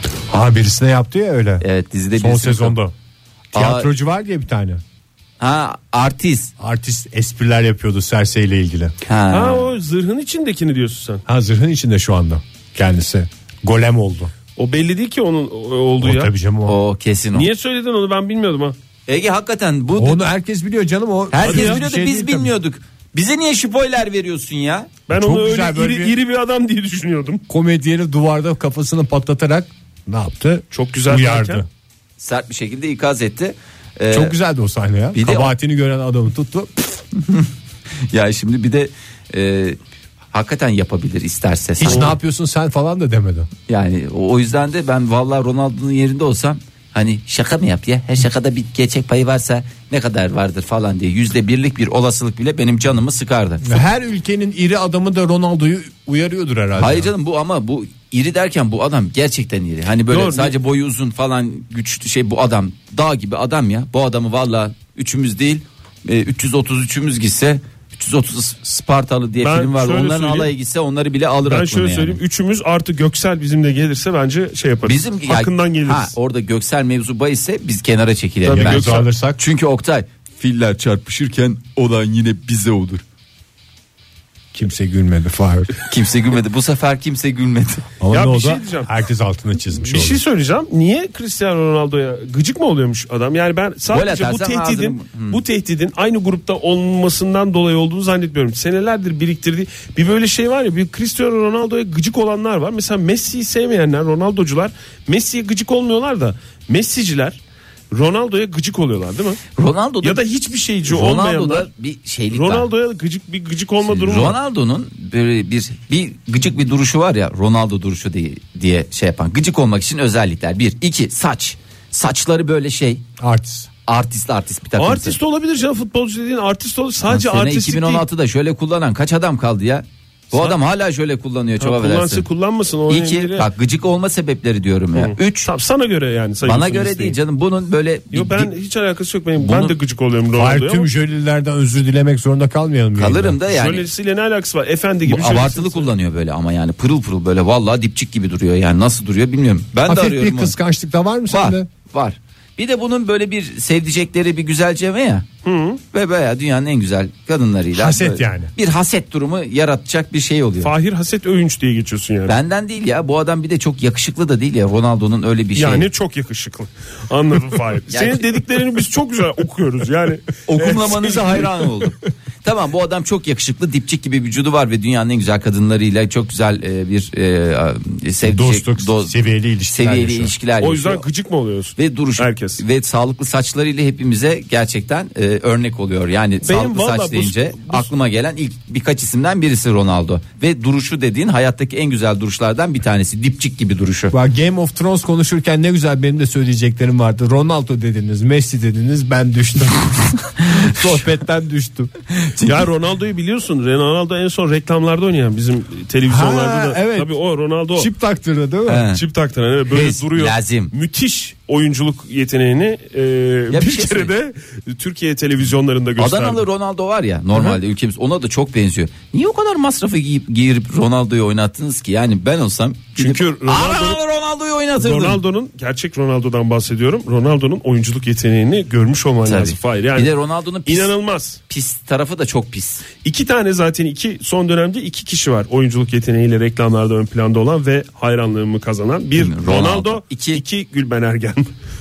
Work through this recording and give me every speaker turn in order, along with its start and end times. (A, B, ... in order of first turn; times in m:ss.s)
0:00.3-0:01.6 A
0:01.6-0:02.8 B
0:02.2-0:02.9 A
0:03.5-0:03.9 B
0:03.5-0:04.8 A
0:05.4-0:06.5 B
0:06.6-0:08.9 A
0:09.0-0:09.7 B
0:09.3-0:11.2 C
0:11.3-0:14.3 A
0:14.6-0:16.3 C
0:16.0-0:16.8 A
0:16.6-0:17.5 B
0:17.3-0:18.8 C
0:19.1-0:20.2 B
0:20.0-0:22.5 A
0:21.3-0:25.0 B
0:21.4-0:21.8 C
0:25.1-0:27.4 C
0:25.1-0:26.1 A
0:27.5-0:31.7 A
0:30.7-0:31.6 C
0:32.2-0:34.3 B
0:34.1-0:36.7 A
0:35.1-0:35.5 B
0:37.2-0:37.5 B
0:38.1-0:39.8 B
0:40.3-0:42.2 B
0:41.8-0:43.5 A
0:41.8-0:42.1 C
0:43.7-0:53.8 B
0:53.6-0:57.1 A
0:56.8-1:12.2 B
1:00.1-1:00.5 C
1:09.4-1:10.5 C
1:11.5-1:16.1 C
1:14.8-1:23.0 B
1:18.4-1:19.1 C
1:18.5-1:19.4 A
1:24.5-1:25.7 A
1:25.8-1:27.9 B
1:28.0-1:30.2 A
1:28.1-1:28.9 C
1:29.7-1:47.4 C
1:33.9-1:35.4 B
1:47.9-1:49.4 C
1:49.6-1:50.2 B
1:50.0-1:51.7 C
1:50.9-1:52.7 B
1:52.3-1:54.4 C
1:53.9-2:03.0 B
2:03.2-2:03.7 A
2:03.9-2:05.2 B
2:04.8-2:08.0 C
2:07.1-2:12.2 B
2:11.6-2:13.5 C
2:12.9-2:15.5 B
2:15.0-2:17.2 C
2:16.4-2:18.5 B
2:18.1-2:20.8 C
2:19.4-2:19.7 B
2:20.3-2:23.4 A
2:23.0-2:23.9 B
2:23.5-2:25.9 C
2:25.0-2:30.5 B
2:29.9-2:31.7 A
2:31.3-2:35.2 B
2:35.4-2:35.8 C
2:35.9-2:40.7 B
2:37.7-2:38.5 A
2:40.6-2:42.3 C
2:42.3-2:45.8 B
2:45.6-2:51.6 C
2:47.9-2:48.3 B
2:50.5-2:59.2 B
2:58.2-3:00.3 A
2:59.7-3:01.0 B
3:00.6-3:02.6 C
3:01.8-3:14.1 B
3:06.4-3:07.9 C
3:14.1-3:21.9 A
3:20.4-3:20.9 B
3:22.2-3:22.6 B
3:22.4-3:27.9 C
3:26.0-3:27.1 A
3:27.7-3:28.9 A
3:28.7-3:29.0 B
3:28.9-3:36.4 C
3:29.7-3:30.7 B
3:33.5-3:34.1 B
3:36.0-3:45.2 B
3:43.0-3:44.0 C
3:44.8-3:50.1 C
3:49.2-3:50.9 B
3:50.6-3:51.4 C
3:51.5-3:52.8 B
3:53.0-4:01.5 C
3:59.2-4:00.4 B